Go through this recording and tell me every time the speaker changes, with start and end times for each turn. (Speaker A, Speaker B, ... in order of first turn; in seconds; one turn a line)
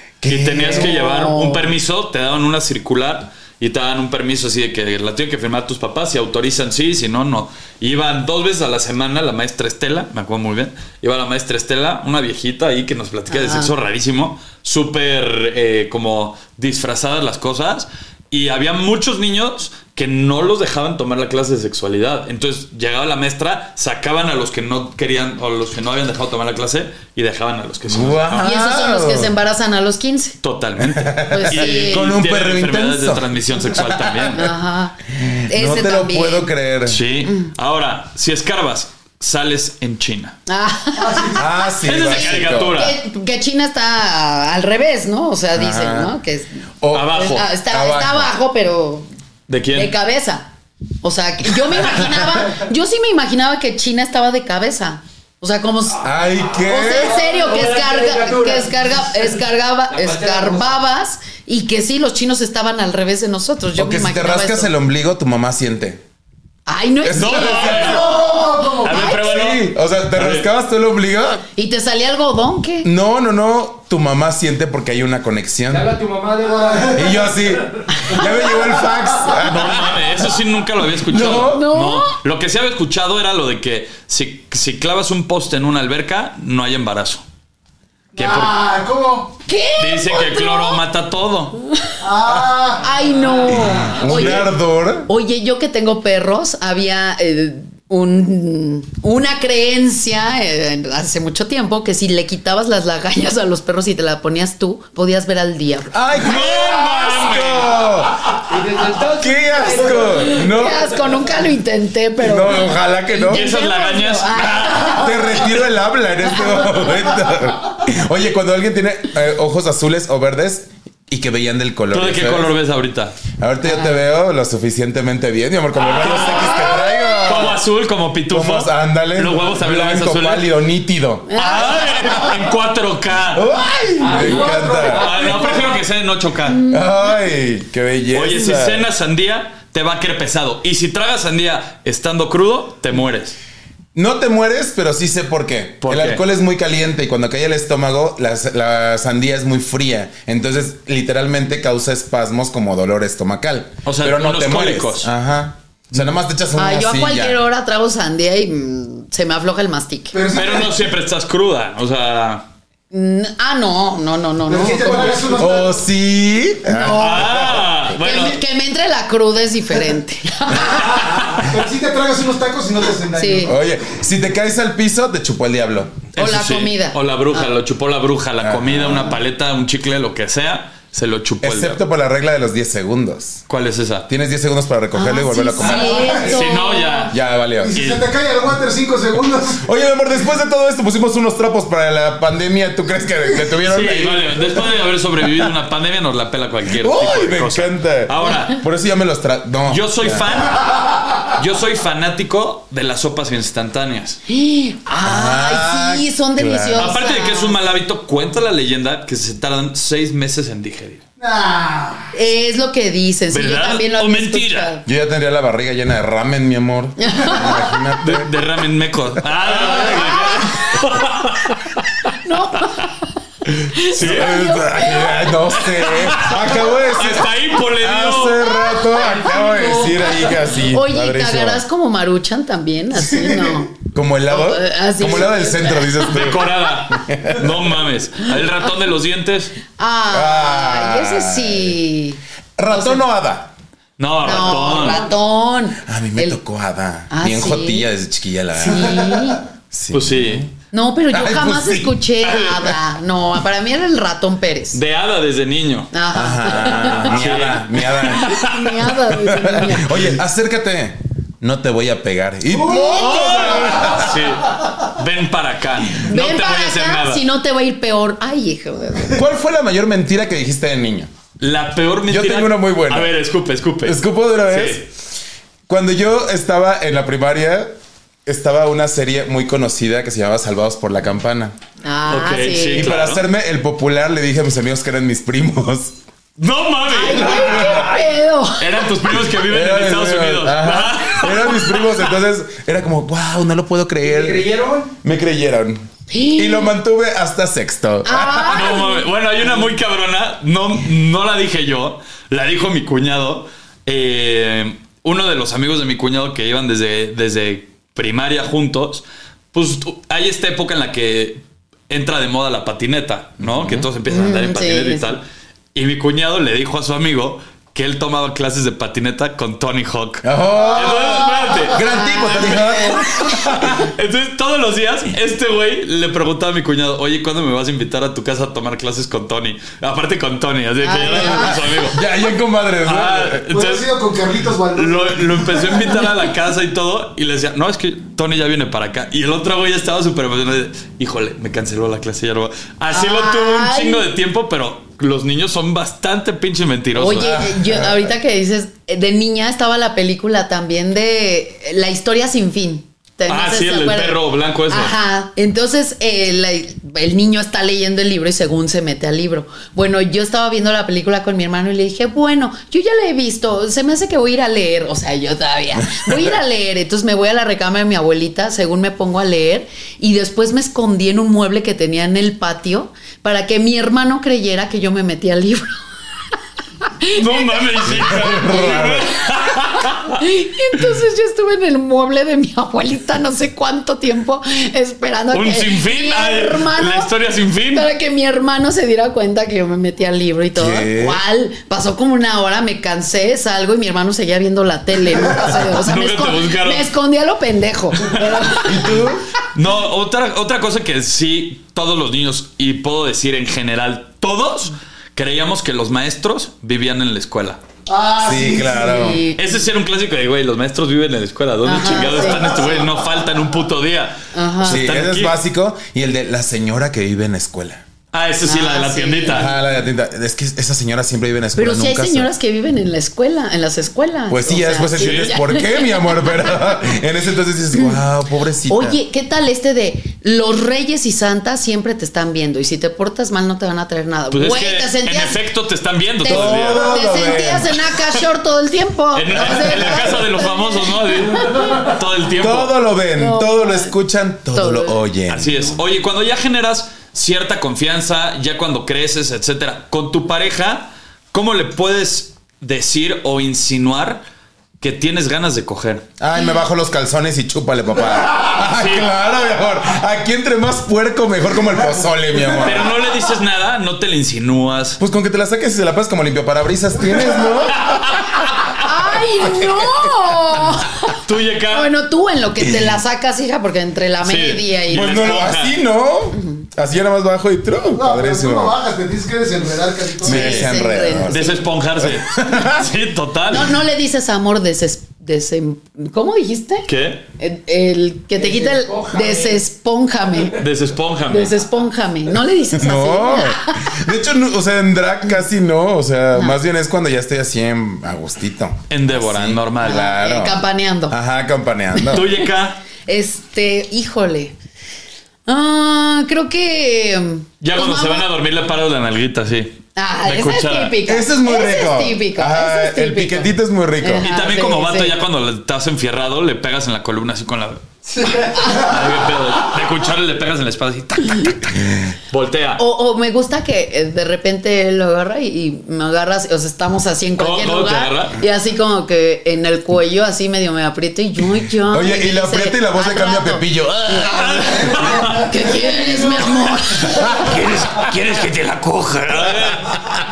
Speaker A: 0.2-1.0
Speaker B: 0.2-28.5
Speaker C: 0.7-1.7
Speaker C: 13.3-13.7
Speaker A: 27.9-29.3
Speaker C: 28.4-30.4
Speaker B: 30.4-34.5
Speaker A: 30.8-34.4
Speaker C: 31.3-32.1
Speaker C: 34.3-35.0
Speaker A: 35.1-37.0
Speaker C: 35.5-36.5
Speaker B: 36.9-40.4
Speaker C: 40.5-49.1
Speaker D: 41.0-41.4
Speaker A: 41.3-42.8
Speaker B: 41.8-42.9
Speaker A: 45.5-46.1
Speaker A: 46.8-48.3
Speaker B: 46.9-47.5
Speaker B: 49.5-49.9
Speaker C: 49.7-50.5
Speaker C: 51.0-64.7
Speaker A: 51.9-52.3
Speaker A: 56.0-57.2
Speaker E: 56.6-59.0
Speaker E: 59.9-60.7
Speaker A: 63.8-66.0
Speaker C: 66.7-69.4
Speaker A: 67.0-68.1
Speaker B: 67.1-68.2
Speaker D: 67.6-69.0
Speaker B: 68.8-70.5
Speaker A: 69.0-71.4
Speaker C: 71.5-72.9
Speaker A: 72.8-75.9
Speaker E: 75.7-77.3
Speaker D: 76.5-77.0
Speaker A: 76.9-80.0
Speaker C: 77.9-78.3
Speaker D: 78.4-79.3
Speaker B: 79.4-87.2
Speaker A: 81.0-81.7
Speaker C: 81.2-82.1
Speaker D: 88.1-89.3
Speaker B: 88.2-88.6
Speaker C: 89.5-90.8
Speaker B: 89.8-91.6
Speaker D: 92.0-94.0
Speaker A: 92.2-92.6
Speaker C: 92.8-94.5
Speaker A: 93.5-95.1
Speaker C: 95.0-106.0
Speaker A: 105.9-108.3
Speaker B: 106.2-107.8
Speaker E: 108.5-110.6
Speaker A: 109.1-110.8
Speaker C: 110.2-115.5
Speaker A: 112.2-113.5
Speaker B: 113.3-115.0
Speaker A: 114.9-122.5
Speaker C: 116.5-116.7
Speaker B: 121.9-123.2
Speaker A: 123.4-127.6
Speaker C: 123.6-124.0
Speaker B: 125.9-126.7
Speaker C: 126.2-127.5
Speaker B: 127.2-130.5
Speaker A: 128.3-131.4
Speaker C: 131.3-132.4
Speaker B: 131.3-133.4
Speaker A: 133.3-135.1
Speaker E: 134.0-135.7
Speaker B: 134.8-136.6
Speaker C: 136.5-137.0
Speaker A: 136.7-138.8
Speaker B: 138.1-143.3
Speaker A: 143.9-157.4
Speaker B: 145.8-146.2
Speaker B: 153.8-155.1
Speaker C: 156.6-160.2
Speaker D: 160.1-160.7
Speaker B: 160.3-162.5
Speaker C: 162.9-165.4
Speaker D: 164.5-165.8
Speaker A: 165.3-167.9
Speaker C: 166.7-171.2
Speaker B: 166.9-168.4
Speaker D: 170.7-173.6
Speaker C: 173.1-173.5
Speaker A: 173.4-176.0
Speaker B: 176.1-181.8
Speaker C: 176.2-177.5
Speaker A: 178.4-179.2
Speaker A: 181.4-183.4
Speaker B: 183.5-184.1
Speaker A: 184.1-186.2
Speaker C: 184.9-187.1
Speaker D: 185.6-186.6
Speaker B: 186.2-187.2
Speaker A: 187.1-187.8
Speaker D: 187.6-189.7
Speaker B: 187.7-188.1
Speaker A: 189.6-194.6
Speaker B: 193.6-198.6
Speaker A: 196.7-200.4
Speaker B: 199.7-204.2
Speaker C: 204.3-207.6
Speaker A: 205.0-206.9
Speaker B: 206.8-211.0
Speaker D: 211.2-212.1
Speaker C: 212.1-214.8
Speaker B: 213.3-214.7
Speaker A: 214.8-218.3
Speaker C: 217.0-217.8
Speaker B: 218.0-222.1
Speaker A: 219.4-220.1
Speaker C: 219.7-220.8
Speaker C: 222.2-223.0
Speaker B: 223.6-224.4
Speaker C: 223.7-225.5
Speaker A: 223.9-231.6
Speaker B: 225.6-228.5
Speaker C: 228.4-236.4
Speaker D: 233.0-233.6
Speaker A: 233.9-237.6
Speaker B: 236.0-239.6
Speaker C: 239.8-243.0
Speaker A: 240.1-241.8
Speaker A: 242.6-243.5
Speaker B: 244.0-245.1
Speaker C: 244.2-246.4
Speaker A: 245.8-250.5
Speaker C: 247.1-247.9
Speaker C: 248.6-249.4
Speaker B: 249.9-250.5
Speaker C: 250.7-254.8
Speaker A: 251.1-252.0
Speaker B: 254.7-255.9
Speaker C: 255.9-257.4
Speaker A: 256.1-264.3
Speaker B: 256.8-258.6
Speaker C: 257.9-260.1
Speaker D: 262.5-263.1
Speaker C: 262.6-263.7
Speaker B: 262.9-267.2
Speaker C: 266.0-269.2
Speaker A: 269.1-271.1
Speaker B: 271.4-274.8
Speaker A: 272.1-273.1
Speaker A: 273.8-274.9
Speaker A: 275.7-277.7
Speaker A: 278.2-281.5
Speaker C: 281.8-282.9
Speaker B: 282.1-283.2
Speaker A: 282.7-286.0
Speaker B: 286.4-288.0
Speaker C: 286.9-288.9
Speaker A: 287.2-287.9
Speaker B: 288.6-291.8
Speaker A: 289.2-294.5
Speaker E: 294.0-294.9
Speaker A: 295.0-298.7
Speaker C: 296.1-296.7
Speaker C: 298.0-299.1
Speaker B: 298.5-315.2
Speaker A: 313.4-313.9
Speaker C: 314.1-315.1
Speaker B: 315.7-321.8
Speaker A: 320.2-323.9
Speaker C: 321.7-323.2
Speaker B: 323.1-332.0
Speaker C: 330.8-331.8
Speaker A: 331.9-333.4
Speaker B: 332.8-333.9
Speaker D: 333.5-336.1
Speaker B: 334.7-347.4
Speaker C: 342.9-344.1
Speaker C: 346.9-375.8
Speaker A: 347.2-348.1
Speaker B: 353.3-354.9
Speaker C: 376.8-378.2
Speaker B: 377.1-380.2
Speaker A: 377.8-379.2
Speaker C: 379.8-387.1
Speaker B: 385.3-387.9
Speaker C: 387.7-399.1
Speaker A: 390.5-391.2
Speaker B: 395.6-396.9
Speaker A: 398.6-399.2
Speaker B: 399.5-407.6
Speaker D: 407.9-409.2
Speaker A: 408.2-409.2
Speaker C: 408.7-409.6
Speaker B: 409.3-415.4
Speaker C: 411.6-412.8
Speaker C: 414.3-414.8
Speaker A: 414.6-417.8
Speaker B: 418.1-419.5
Speaker C: 418.4-419.5
Speaker A: 419.3-422.3
Speaker C: 421.6-426.7
Speaker A: 424.3-429.0
Speaker B: 425.0-425.4
Speaker C: 427.7-428.0
Speaker C: 428.7-435.4
Speaker B: 434.3-436.9
Speaker C: 436.2-441.9
Speaker A: 436.2-437.9
Speaker B: 439.1-442.7
Speaker A: 439.8-440.2
Speaker A: 442.3-445.8
Speaker C: 443.1-443.9
Speaker C: 444.5-445.0
Speaker B: 445.3-454.2
Speaker B: 454.8-456.1
Speaker A: 456.2-462.9
Speaker B: 458.6-459.1
Speaker B: 462.5-465.0
Speaker A: 465.0-468.2
Speaker B: 467.7-468.8
Speaker C: 468.8-475.5
Speaker B: 471.2-471.9
Speaker A: 472.6-473.0
Speaker B: 474.2-475.8
Speaker A: 474.9-478.8
Speaker C: 476.3-476.6
Speaker D: 477.9-480.6
Speaker A: 480.2-482.9
Speaker C: 480.2-481.6
Speaker B: 480.4-480.7
Speaker B: 481.2-483.7
Speaker C: 483.5-486.9
Speaker B: 486.9-487.2
Speaker C: 487.4-490.6
Speaker E: 488.4-489.6
Speaker B: 490.6-491.5
Speaker C: 491.3-494.0
Speaker A: 492.7-502.3
Speaker B: 498.9-500.0
Speaker C: 499.8-501.1
Speaker C: 502.0-502.4
Speaker B: 502.1-502.8
Speaker C: 503.1-504.5
Speaker C: 505.4-508.3
Speaker B: 507.6-510.9
Speaker C: 509.9-513.5
Speaker A: 511.0-514.2
Speaker C: 514.0-515.1
Speaker B: 514.2-521.8
Speaker C: 518.5-518.9
Speaker A: 521.7-522.1
Speaker B: 522.3-522.8
Speaker C: 522.8-539.2
Speaker B: 527.4-528.4
Speaker A: 531.9-534.6
Speaker B: 534.2-535.5
Speaker D: 534.7-536.5
Speaker A: 537.1-537.6
Speaker B: 539.1-540.0